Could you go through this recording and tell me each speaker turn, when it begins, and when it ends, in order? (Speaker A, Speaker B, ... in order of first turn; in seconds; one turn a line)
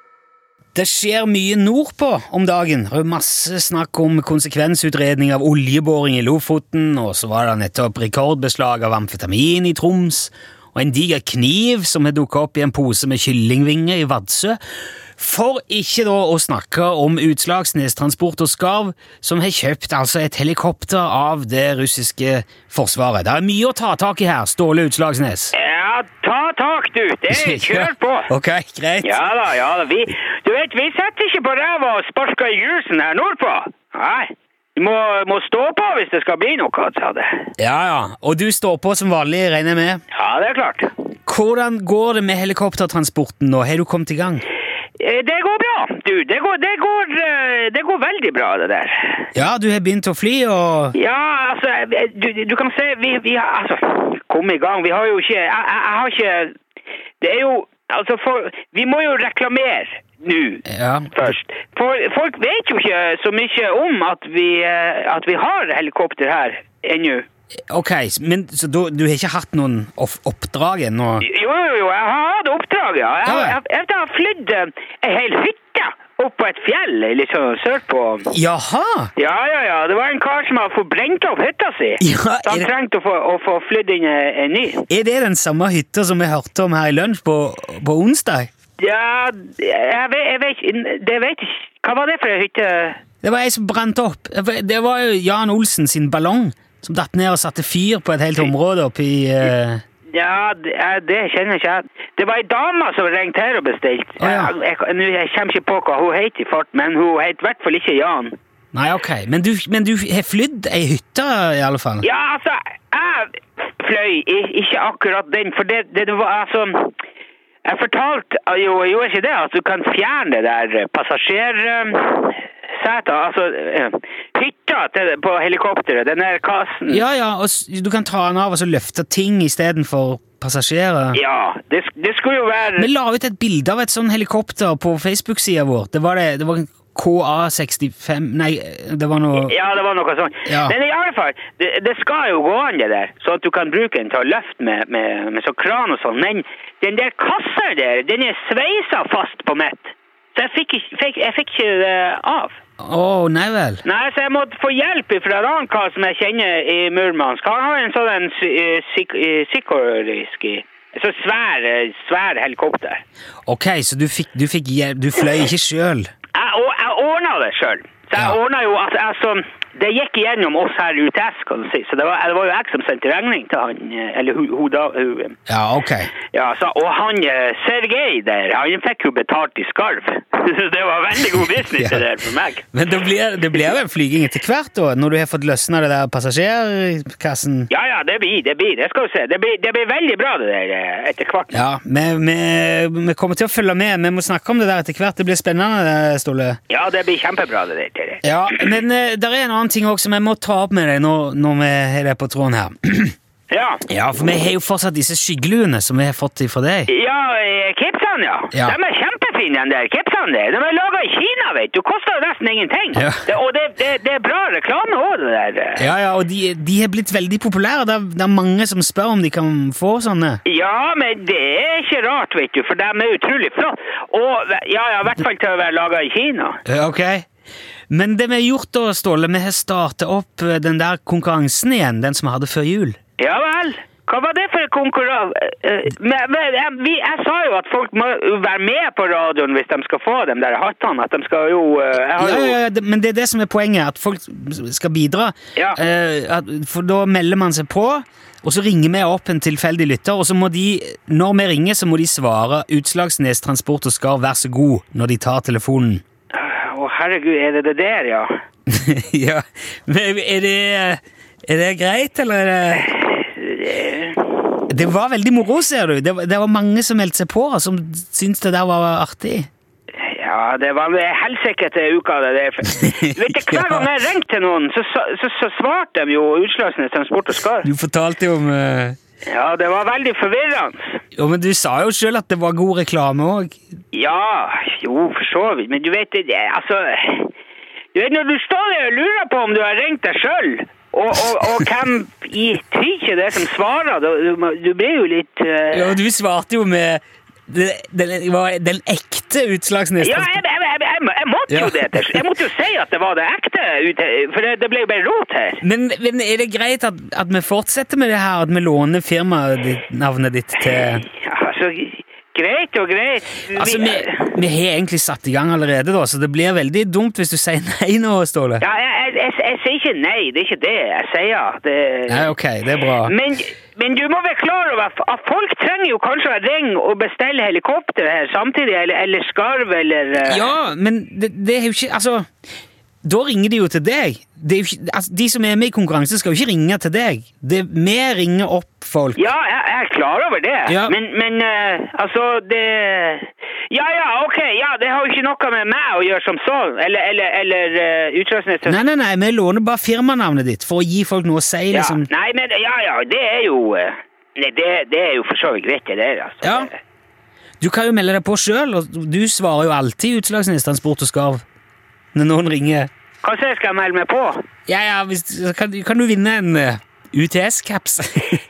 Speaker A: 0.7-14.6
Speaker A: 15.2-25.5
Speaker B: 25.5-28.3
Speaker A: 27.3-29.2
Speaker B: 29.0-37.5
Speaker A: 37.6-40.0
Speaker B: 40.1-40.9
Speaker A: 41.3-44.4
Speaker B: 45.0-49.3
Speaker A: 49.3-50.9
Speaker B: 50.9-56.5
Speaker B: 57.2-67.2
Speaker A: 60.6-61.3
Speaker A: 67.7-71.2
Speaker B: 71.2-78.3
Speaker A: 73.2-73.6
Speaker A: 78.3-79.1
Speaker B: 79.2-84.8
Speaker A: 82.0-82.7
Speaker A: 84.9-88.5
Speaker B: 88.8-93.0
Speaker A: 93.2-99.8
Speaker B: 100.1-108.3
Speaker A: 104.2-104.5
Speaker A: 108.7-112.0
Speaker B: 112.0-117.0
Speaker B: 117.6-127.0
Speaker A: 126.9-131.2
Speaker B: 131.1-132.9
Speaker A: 132.8-139.5
Speaker B: 139.3-152.6
Speaker A: 140.4-140.8
Speaker A: 152.8-153.8
Speaker B: 153.8-163.0
Speaker A: 163.5-166.1
Speaker B: 166.3-175.4
Speaker A: 175.5-176.1
Speaker B: 176.3-182.6
Speaker A: 181.7-182.0
Speaker A: 182.7-187.7
Speaker B: 187.7-191.6
Speaker A: 191.5-196.6
Speaker B: 196.7-198.7
Speaker A: 198.2-203.1
Speaker B: 203.5-203.8
Speaker A: 203.9-206.9
Speaker B: 206.9-215.9
Speaker A: 208.5-208.8
Speaker A: 212.9-213.2
Speaker A: 215.8-220.4
Speaker B: 220.4-226.6
Speaker A: 226.6-227.2
Speaker A: 227.9-233.0
Speaker B: 233.2-242.6
Speaker A: 242.2-256.0
Speaker B: 256.3-258.3
Speaker A: 258.7-262.9
Speaker B: 262.9-264.6
Speaker A: 264.7-269.5
Speaker B: 270.0-277.7
Speaker A: 272.7-273.9
Speaker A: 277.6-279.0
Speaker B: 279.2-281.0
Speaker A: 281.1-283.6
Speaker B: 283.9-287.3
Speaker B: 287.9-296.0
Speaker A: 295.7-300.4
Speaker B: 300.0-305.6
Speaker A: 301.5-302.2
Speaker A: 305.6-311.0
Speaker B: 310.6-314.3
Speaker A: 313.5-318.6
Speaker B: 318.6-322.3
Speaker A: 322.1-323.1
Speaker B: 323.0-330.5
Speaker A: 330.2-332.2
Speaker A: 333.0-339.3
Speaker B: 339.2-348.8
Speaker A: 340.7-340.9
Speaker A: 348.6-352.1
Speaker B: 351.7-356.8
Speaker A: 356.4-356.7
Speaker A: 357.6-361.4
Speaker A: 362.1-362.9
Speaker B: 363.2-364.5
Speaker A: 364.6-368.4